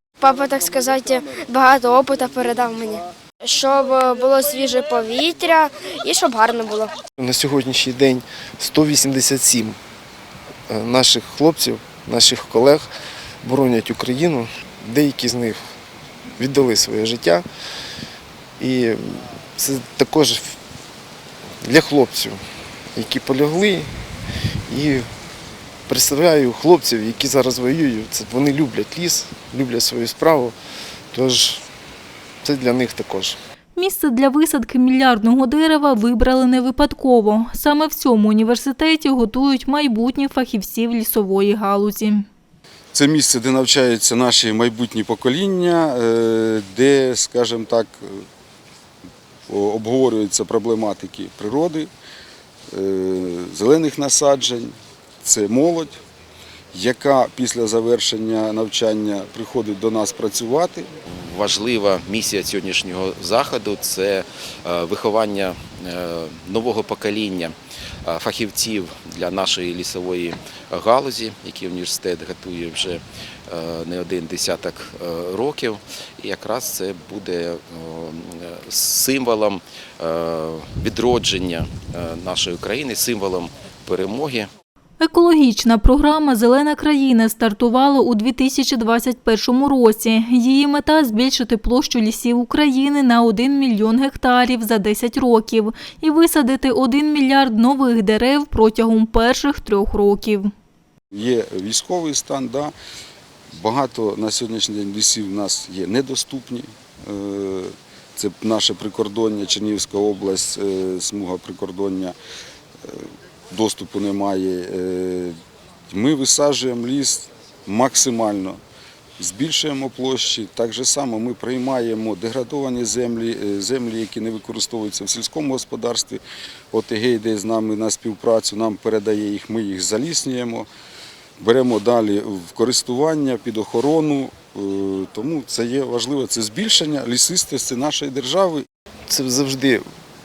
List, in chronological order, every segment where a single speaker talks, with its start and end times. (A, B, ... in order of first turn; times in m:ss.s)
0:00.2-0:07.0 A
0:07.2-0:09.8 B
0:10.7-0:12.9 B
0:13.4-0:15.6 B
0:16.4-0:17.4 B
0:18.6-0:20.6 B
0:21.6-0:22.4 B
0:23.0-0:23.9 B
0:24.7-0:25.0 B
0:25.9-0:30.6 B
0:31.1-0:31.6 B
0:32.4-0:33.4 B
0:33.8-0:42.3 C
0:42.9-0:48.2 D
0:49.5-0:51.9 D
0:52.7-0:56.0 D
0:56.7-1:00.9 D
1:01.1-1:24.5 E
1:25.0-1:40.5 C
1:41.1-1:42.7 D
1:43.5-1:52.2 D
1:52.8-1:55.4 D
1:55.9-1:58.6 D
1:59.2-2:10.7 D
2:11.4-2:18.7 D
2:19.1-2:19.8 B